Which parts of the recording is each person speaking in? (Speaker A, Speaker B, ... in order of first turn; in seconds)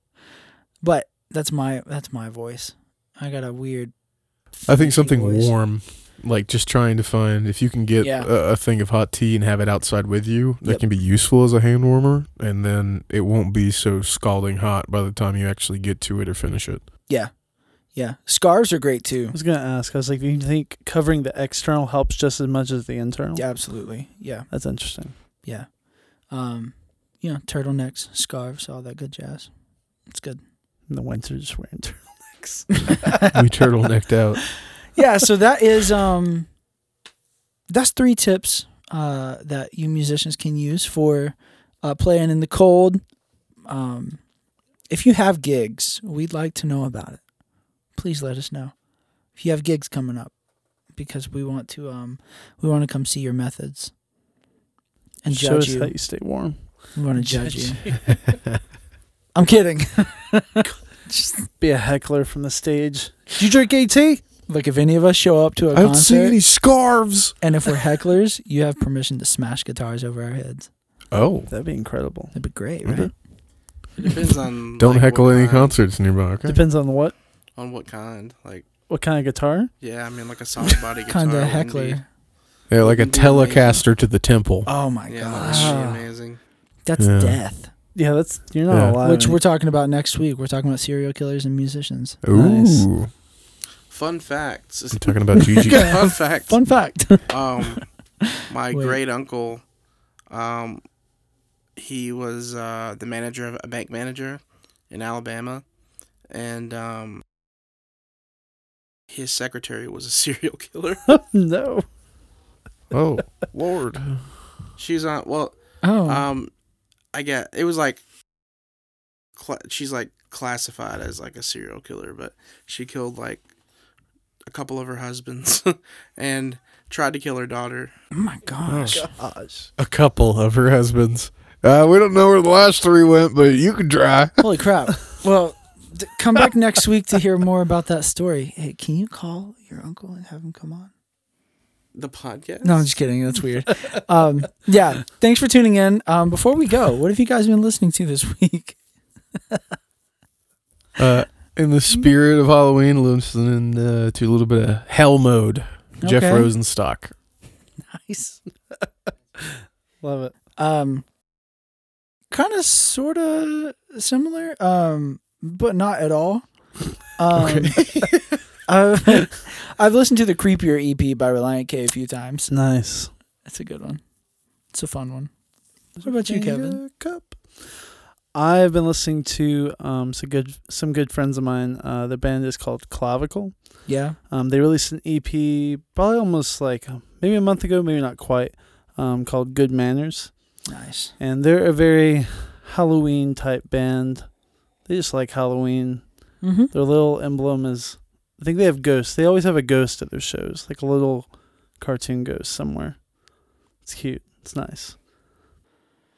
Speaker A: 0.8-5.6, 8.0-8.3, 17.1-19.4, 23.4-30.4, 34.9-36.5, 37.7-53.9, 55.2-56.3, 56.9-58.1, 59.3-61.5, 64.5-66.5, 67.4-70.7, 72.3-73.2, 81.1-82.1, 84.7-85.8, 86.8-87.7, 89.0-92.2, 96.5-97.7, 98.7-99.0, 115.8-116.3, 128.1-129.2, 134.4-140.9, 142.6-148.8, 156.0-156.5, 157.9-158.4, 160.6-161.1, 162.3-168.1, 168.7-172.5, 173.4-176.8, 183.9-184.2, 190.7-191.1, 196.4-196.7
Speaker B: 4.7-16.8, 33.3-34.6, 65.7-67.4, 71.1-71.5, 72.8-73.1, 74.8-76.6, 82.7-84.7, 87.0-87.4, 88.7-89.0, 92.2-93.1, 94.9-96.1, 112.9-114.4, 128.7-134.5, 151.0-157.2
Speaker C: 19.3-25.1, 30.9-33.2, 55.3-58.1, 61.6-64.2, 71.5-72.8, 76.5-77.2, 78.9-79.7, 85.4-86.1, 88.0-89.4, 92.3-92.9, 111.1-111.8, 128.9-129.7, 160.0-160.3, 172.5-173.1, 176.0-205.0
Speaker D: 74.0-75.8, 77.5-78.7, 79.8-82.1, 82.7-83.8, 85.1-86.4, 93.9-99.7, 100.3-100.9, 101.8-105.7, 106.3-107.2, 109.1-111.0, 114.8-116.5, 117.1-118.0, 119.4-123.5, 124.5-127.9, 141.9-143.0